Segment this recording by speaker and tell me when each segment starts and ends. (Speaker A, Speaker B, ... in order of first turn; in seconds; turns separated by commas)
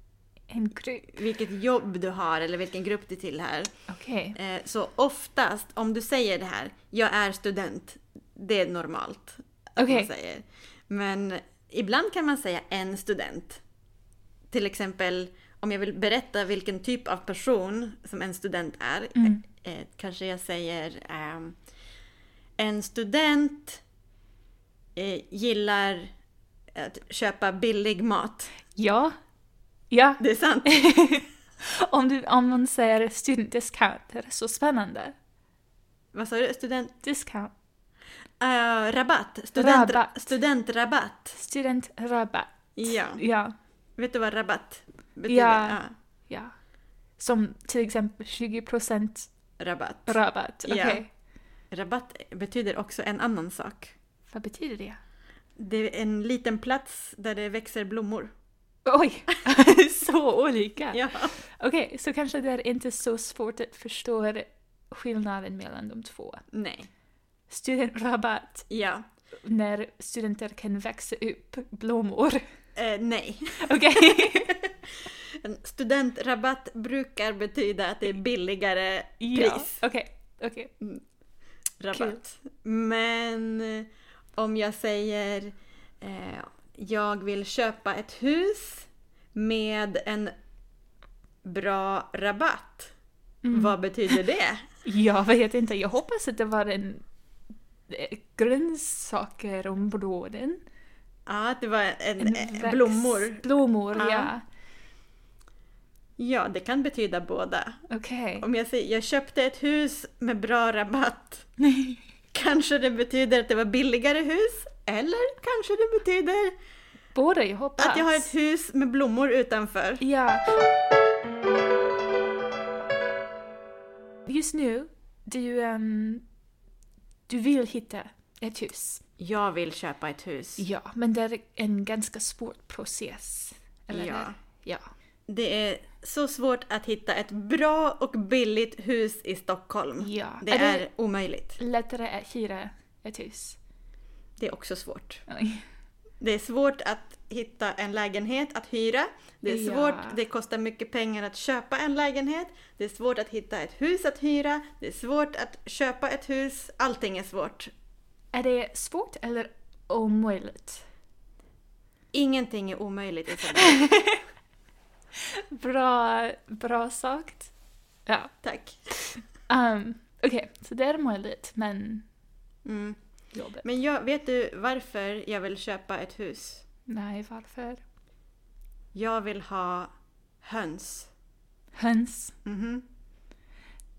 Speaker A: 0.5-1.2, Speaker B: 1.1-3.7, Speaker A: 3.9-4.3, Speaker B: 4.3-13.6, Speaker A: 9.8-10.1, Speaker B: 14.5-21.6, Speaker A: 19.1-19.4, Speaker B: 22.6-23.8, Speaker B: 24.9-26.1, Speaker B: 26.7-28.5, Speaker A: 28.7-29.1, Speaker A: 29.9-35.1, Speaker B: 30.2-30.7, Speaker B: 36.1-36.9, Speaker A: 37.0-37.5, Speaker B: 38.4-41.4, Speaker A: 39.6-40.3, Speaker A: 41.3-43.5, Speaker B: 42.8-43.2, Speaker B: 44.0-45.9, Speaker A: 45.3-46.5, Speaker A: 47.2-49.3, Speaker B: 49.6-51.0, Speaker A: 50.1-51.1, Speaker B: 51.7-53.9, Speaker A: 54.3-55.0, Speaker B: 55.6-58.3, Speaker A: 58.9-66.4, Speaker B: 60.9-61.4, Speaker B: 66.5-66.9, Speaker A: 67.5-68.7, Speaker B: 68.7-69.0, Speaker A: 69.4-72.4, Speaker B: 72.8-74.7, Speaker A: 73.6-74.6, Speaker B: 75.4-79.8, Speaker A: 79.2-80.7, Speaker B: 81.8-90.3, Speaker A: 81.9-82.2, Speaker B: 91.4-92.9, Speaker A: 93.4-93.8, Speaker B: 93.5-94.6, Speaker A: 94.8-97.0, Speaker A: 97.9-100.6, Speaker B: 101.3-104.3, Speaker A: 102.2-104.4, Speaker B: 106.2-107.8, Speaker A: 107.9-108.5, Speaker B: 108.4-111.5, Speaker A: 111.6-112.0, Speaker B: 112.3-116.5, Speaker A: 117.1-118.3, Speaker B: 117.8-120.0, Speaker A: 120.0-120.4, Speaker A: 124.2-126.2, Speaker A: 127.3-129.0, Speaker B: 129.2-130.7, Speaker A: 130.6-134.9, Speaker B: 133.9-134.3, Speaker B: 135.3-141.6, Speaker A: 140.0-140.8, Speaker A: 141.6-143.6, Speaker B: 144.4-145.2, Speaker A: 145.3-145.6, Speaker B: 146.2-157.7, Speaker A: 149.4-150.2, Speaker A: 158.3-160.8, Speaker B: 162.1-163.8, Speaker A: 163.6-164.2, Speaker A: 165.3-167.5, Speaker A: 168.1-168.3, Speaker B: 168.4-168.8, Speaker A: 168.9-172.0, Speaker B: 172.6-173.0, Speaker A: 173.3-173.6, Speaker B: 173.6-176.6, Speaker A: 176.9-177.8, Speaker B: 178.9-179.9, Speaker B: 180.4-181.1, Speaker A: 181.8-182.3, Speaker B: 182.4-182.8